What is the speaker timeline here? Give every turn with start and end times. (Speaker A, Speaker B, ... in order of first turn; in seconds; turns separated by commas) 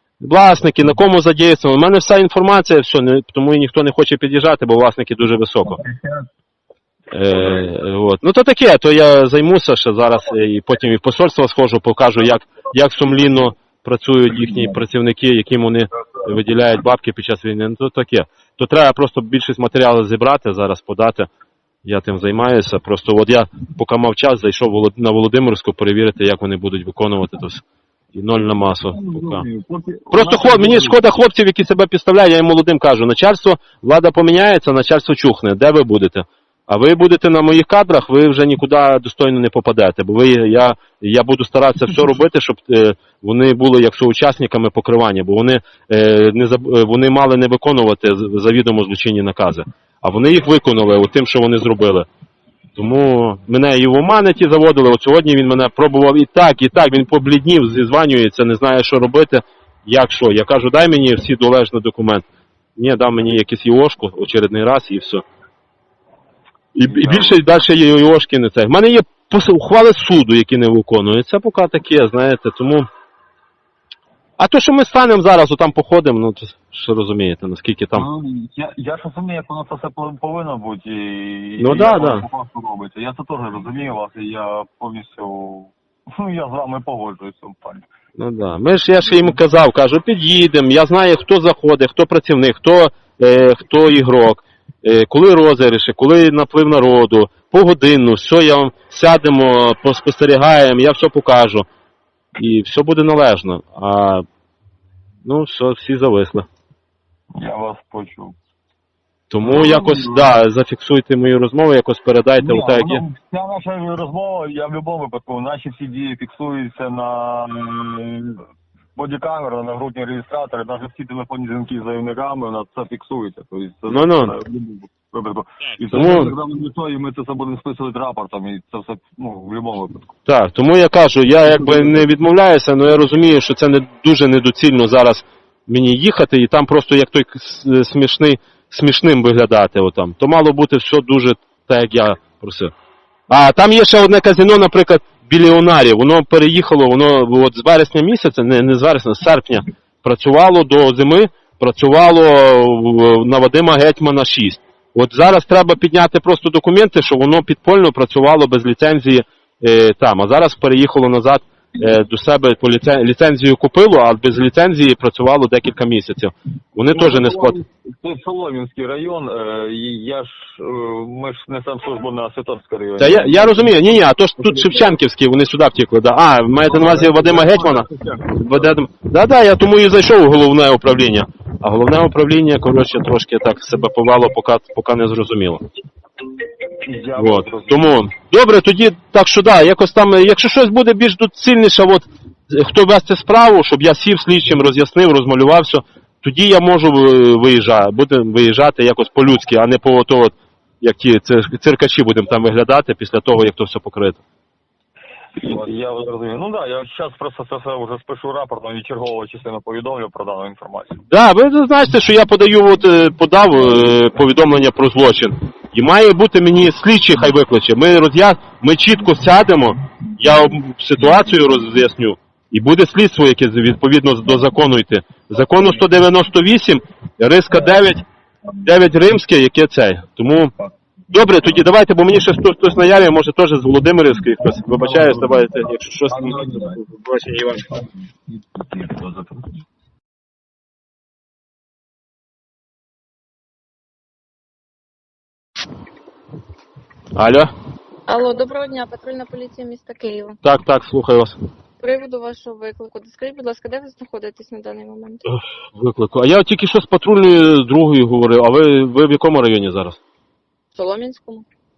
Speaker A: 0.2-5.8, Speaker B: 5.6-6.2, Speaker A: 7.1-21.3, Speaker B: 14.3-14.8, Speaker A: 21.8-29.4, Speaker B: 28.4-31.0, Speaker A: 30.1-52.1, Speaker A: 52.8-62.2, Speaker A: 62.8-65.2, Speaker A: 66.7-72.9, Speaker B: 66.9-67.4, Speaker A: 74.4-78.1, Speaker B: 77.9-87.8, Speaker A: 81.6-82.2, Speaker A: 88.2-101.7, Speaker A: 102.4-104.2, Speaker A: 105.2-106.5, Speaker B: 107.3-108.3, Speaker A: 109.3-113.0, Speaker B: 109.4-110.2, Speaker B: 112.4-118.4, Speaker B: 118.9-130.1, Speaker A: 123.9-124.3, Speaker A: 125.9-126.3, Speaker A: 130.2-142.7, Speaker B: 131.4-132.1, Speaker A: 143.3-167.6, Speaker B: 166.9-173.8, Speaker A: 173.0-177.8, Speaker B: 174.4-174.8, Speaker B: 176.7-178.7, Speaker A: 178.4-185.6, Speaker B: 186.8-187.8, Speaker A: 187.2-204.2, Speaker B: 205.4-211.0, Speaker A: 211.1-228.0, Speaker A: 228.6-230.5, Speaker A: 231.1-237.7, Speaker B: 234.4-236.8, Speaker B: 237.6-239.6, Speaker A: 247.2-247.5, Speaker C: 248.1-250.4, Speaker A: 250.4-251.3, Speaker C: 251.8-255.2, Speaker A: 255.3-260.0, Speaker C: 260.7-261.4